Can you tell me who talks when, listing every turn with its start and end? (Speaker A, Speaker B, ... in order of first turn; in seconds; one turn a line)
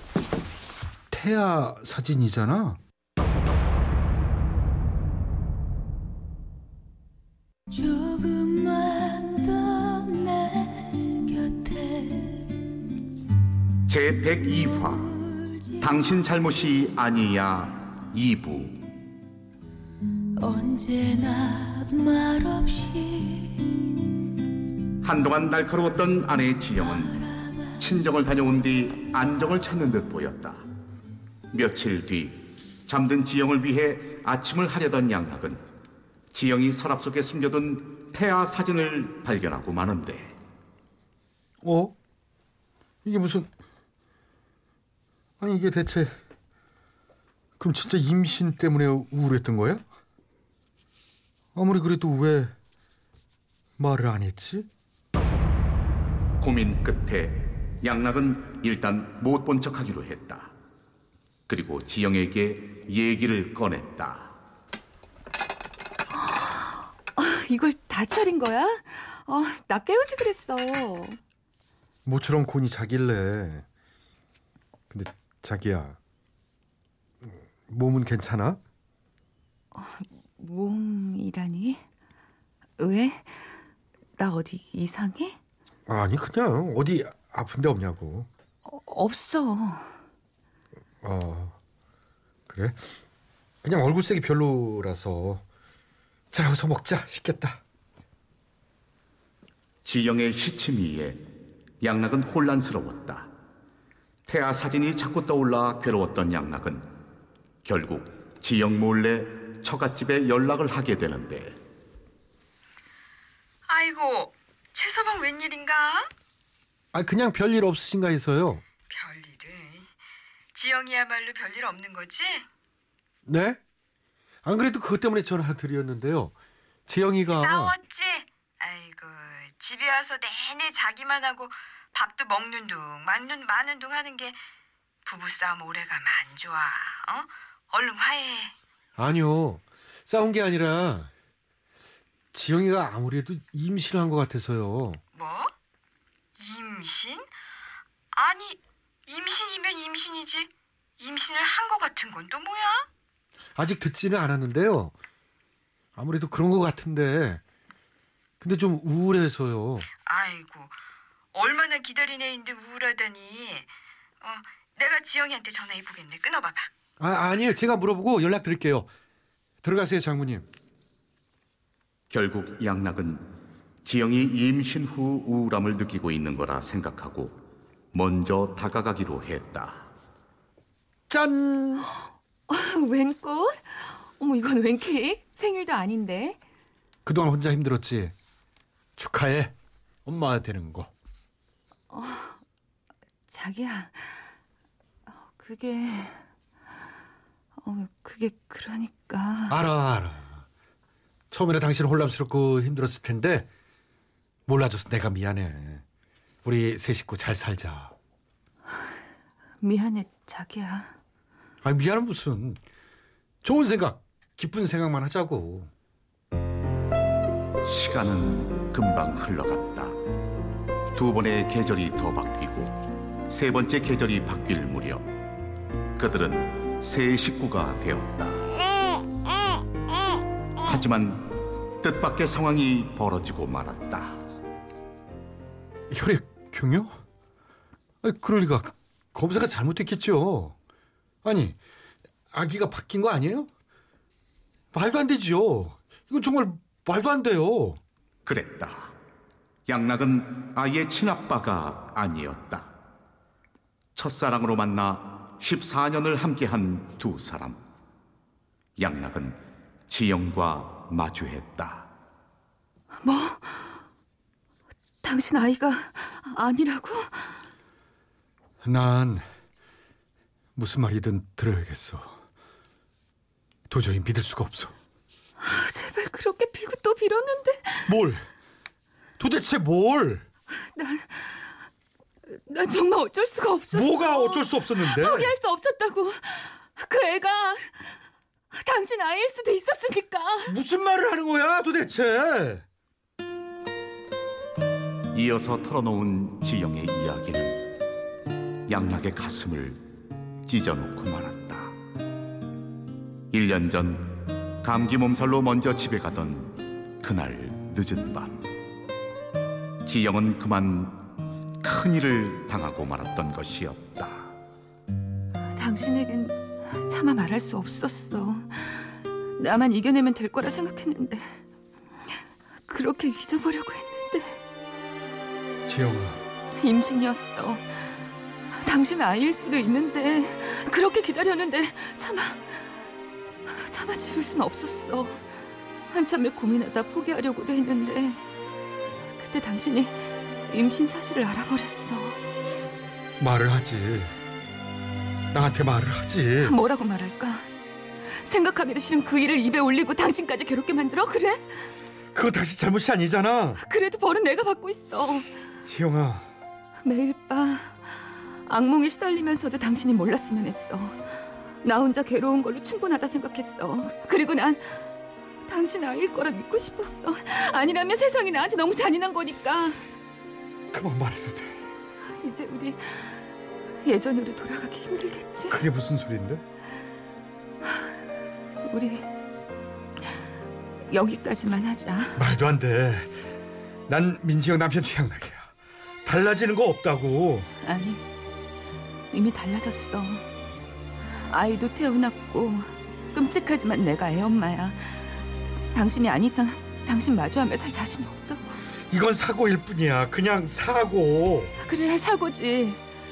Speaker A: 1.1-2.8
Speaker B: 7.8-12.5
Speaker C: 13.9-15.1
Speaker C: 15.8-18.8
Speaker B: 20.4-23.6
Speaker D: 22.7-23.2
Speaker C: 25.0-27.2
Speaker C: 27.8-30.7
Speaker C: 31.5-35.6
Speaker C: 36.3-40.4
Speaker A: 41.6-41.9
Speaker A: 43.0-43.5
Speaker A: 45.4-46.1
Speaker A: 47.6-49.8
Speaker A: 51.5-52.5
Speaker A: 53.8-54.7
Speaker C: 56.4-60.5
Speaker C: 61.5-64.3
Speaker D: 66.1-71.2
Speaker A: 72.0-73.6
Speaker A: 74.9-76.0
Speaker A: 77.2-78.6
Speaker D: 79.7-81.8
Speaker D: 82.8-83.5
Speaker D: 84.2-85.4
Speaker A: 85.9-88.3
Speaker D: 88.7-89.9
Speaker A: 91.0-91.5
Speaker A: 92.5-92.8
Speaker A: 93.6-95.4
Speaker A: 96.3-97.6
Speaker C: 99.8-101.2
Speaker C: 101.8-103.3
Speaker C: 104.3-106.9
Speaker C: 107.6-111.6
Speaker E: 113.7-116.1
Speaker A: 116.9-118.6
Speaker E: 118.9-119.9
Speaker E: 120.5-122.5
Speaker A: 123.2-123.6
Speaker A: 124.4-126.3
Speaker A: 126.8-127.7
Speaker E: 127.3-134.4
Speaker E: 135.0-138.5
Speaker A: 139.0-141.1
Speaker A: 142.3-145.0
Speaker E: 145.1-145.5
Speaker E: 146.4-147.3
Speaker E: 148.1-152.9
Speaker A: 153.6-154.9
Speaker A: 155.9-157.4
Speaker A: 158.4-159.9
Speaker E: 160.1-160.8
Speaker E: 161.3-163.7
Speaker E: 164.2-166.7
Speaker A: 167.0-168.9
Speaker A: 169.6-170.4
Speaker C: 172.1-173.3
Speaker C: 173.8-177.4
Speaker C: 177.9-179.9
Speaker A: 181.1-181.9
Speaker D: 182.5-186.4
Speaker A: 187.0-188.1
Speaker A: 189.0-189.5
Speaker A: 190.0-190.9
Speaker D: 191.9-192.4
Speaker D: 193.3-194.3
Speaker D: 195.1-196.2
Speaker D: 197.6-199.6
Speaker A: 199.5-200.4
Speaker A: 201.3-203.5
Speaker A: 204.4-205.8
Speaker A: 206.4-207.9
Speaker D: 209.6-210.9
Speaker A: 211.6-212.6
Speaker A: 213.4-215.7
Speaker C: 217.6-220.0
Speaker C: 220.9-222.8
Speaker C: 223.3-225.1
Speaker C: 226.0-228.5
Speaker C: 230.6-231.3
Speaker C: 231.8-234.2
Speaker A: 235.9-236.9
Speaker A: 238.0-240.6
Speaker A: 241.2-241.6
Speaker A: 242.3-243.5
Speaker A: 244.7-247.8
Speaker C: 248.2-248.9
Speaker C: 249.7-252.7
Speaker C: 253.9-257.6
Speaker C: 258.8-261.9
Speaker D: 263.0-263.8
Speaker D: 265.0-267.4
Speaker A: 268.6-269.2
Speaker A: 270.6-272.1
Speaker A: 273.7-274.7
Speaker D: 275.4-277.9
Speaker A: 277.9-278.2
Speaker A: 279.2-280.2
Speaker D: 280.6-281.6
Speaker D: 282.3-287.9
Speaker A: 283.7-285.3
Speaker D: 288.5-290.6
Speaker A: 290.4-292.6
Speaker C: 295.1-297.7
Speaker C: 298.7-299.8
Speaker C: 300.4-301.8
Speaker C: 303.3-308.5
Speaker C: 309.8-311.0
Speaker C: 311.6-314.3
Speaker D: 315.5-321.4
Speaker D: 322.7-324.4
Speaker A: 325.6-326.2
Speaker D: 326.6-327.9
Speaker D: 328.5-332.8
Speaker D: 333.4-335.2
Speaker D: 335.9-338.2
Speaker D: 339.1-342.2
Speaker A: 343.2-344.1
Speaker A: 345.3-346.6
Speaker D: 346.4-347.5
Speaker D: 348.1-351.7
Speaker A: 352.1-353.6
Speaker D: 353.6-355.3
Speaker A: 355.6-356.3
Speaker D: 356.8-364.9
Speaker D: 365.4-369.8
Speaker A: 370.7-371.6
Speaker D: 372.1-375.6
Speaker A: 375.5-376.4
Speaker D: 378.6-379.1
Speaker D: 380.9-382.2
Speaker A: 382.1-383.1
Speaker A: 383.9-385.5
Speaker A: 386.0-387.5
Speaker D: 387.6-388.0
Speaker D: 389.1-390.2
Speaker D: 391.1-398.6
Speaker A: 398.9-401.5
Speaker D: 401.6-402.8